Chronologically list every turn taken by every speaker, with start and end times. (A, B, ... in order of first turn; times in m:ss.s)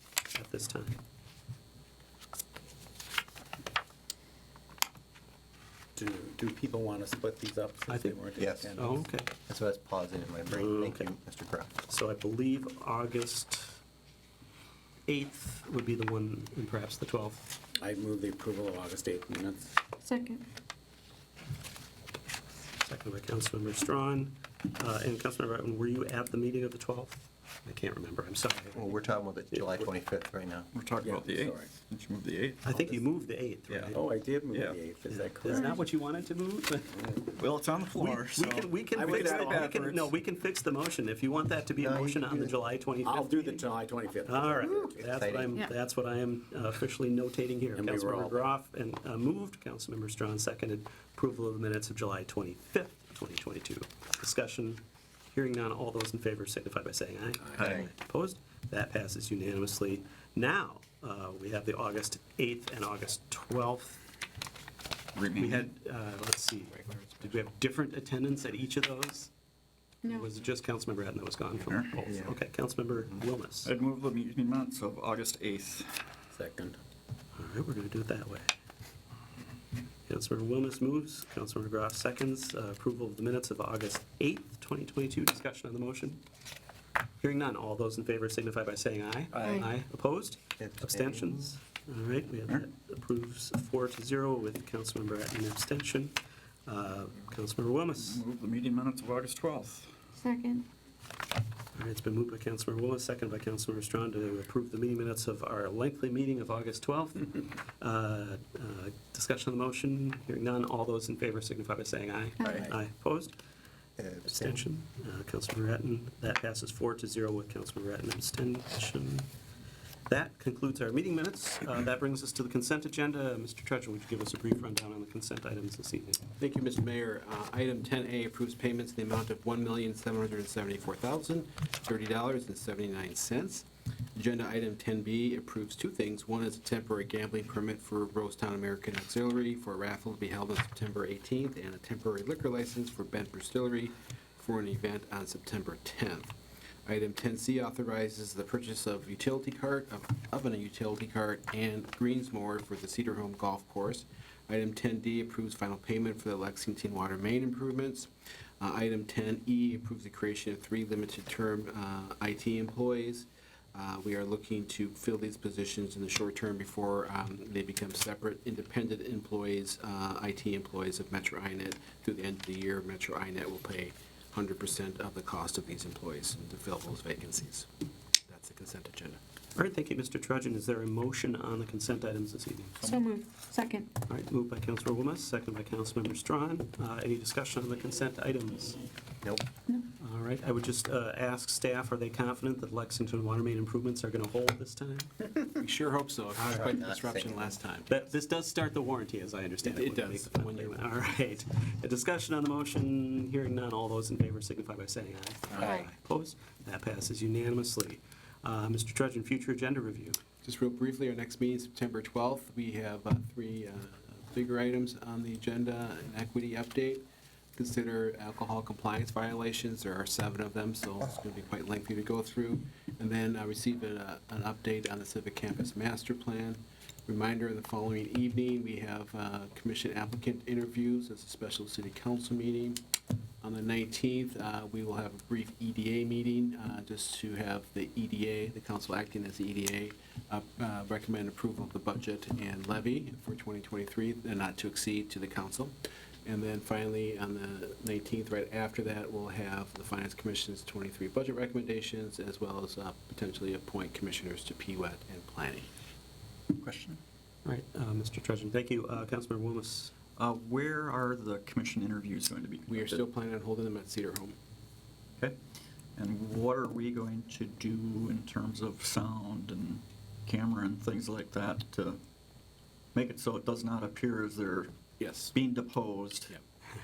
0:00.3-0:01.0 A
0:06.0-0:09.1 B
0:07.9-0:08.2 A
0:08.4-0:08.8 C
0:08.7-0:09.3 A
0:09.5-0:11.7 C
0:10.5-0:11.1 A
0:11.9-0:13.8 A
0:15.1-0:17.6 A
0:17.8-0:19.8 B
0:20.0-0:20.4 D
0:22.8-0:29.0 A
0:28.8-0:30.7 C
0:30.7-0:32.8 E
0:31.0-0:31.7 B
0:32.6-0:34.0 A
0:32.8-0:33.0 B
0:33.7-0:34.0 E
0:33.9-0:35.8 B
0:34.5-0:34.8 E
0:35.1-0:37.2 A
0:37.3-0:40.1 E
0:37.9-0:43.7 A
0:38.9-0:39.8 B
0:41.8-0:42.3 B
0:43.0-0:45.2 B
0:44.2-1:04.0 A
0:45.2-0:45.5 C
0:47.8-0:48.4 B
0:57.6-0:57.9 E
1:05.1-1:05.7 E
1:05.4-1:09.3 A
1:06.8-1:07.3 F
1:10.0-1:13.7 A
1:11.6-1:12.0 E
1:13.6-1:16.1 E
1:16.3-1:16.8 B
1:17.4-1:18.5 A
1:20.1-1:26.2 A
1:27.2-1:38.2 A
1:29.3-1:29.6 E
1:30.6-1:31.3 C
1:38.0-1:39.9 E
1:40.2-1:40.7 D
1:41.8-1:53.3 A
1:52.4-1:52.7 C
1:54.0-1:54.6 C
1:54.2-1:59.3 A
2:00.1-2:06.2 A
2:06.4-2:13.6 F
2:14.2-2:26.4 F
2:26.9-2:38.1 F
2:38.6-2:57.7 F
2:58.3-2:59.2 F
2:59.6-3:03.0 A
3:02.8-3:03.9 D
3:04.1-3:08.8 A
3:09.2-3:09.5 C
3:10.0-3:15.3 A
3:15.6-3:18.0 F
3:16.4-3:17.6 C
3:17.9-3:30.2 A
3:19.6-3:21.3 F
3:25.6-3:25.9 D
3:30.4-3:37.0 F
3:37.6-3:52.8 F
3:53.4-4:15.7 F
4:16.5-4:17.0 E
4:17.4-4:19.9 A
4:20.2-4:23.0 E
4:22.7-4:24.4 F
4:26.0-4:32.0 E
4:33.0-4:34.7 E
4:35.0-4:35.3 F
4:35.3-4:36.4 E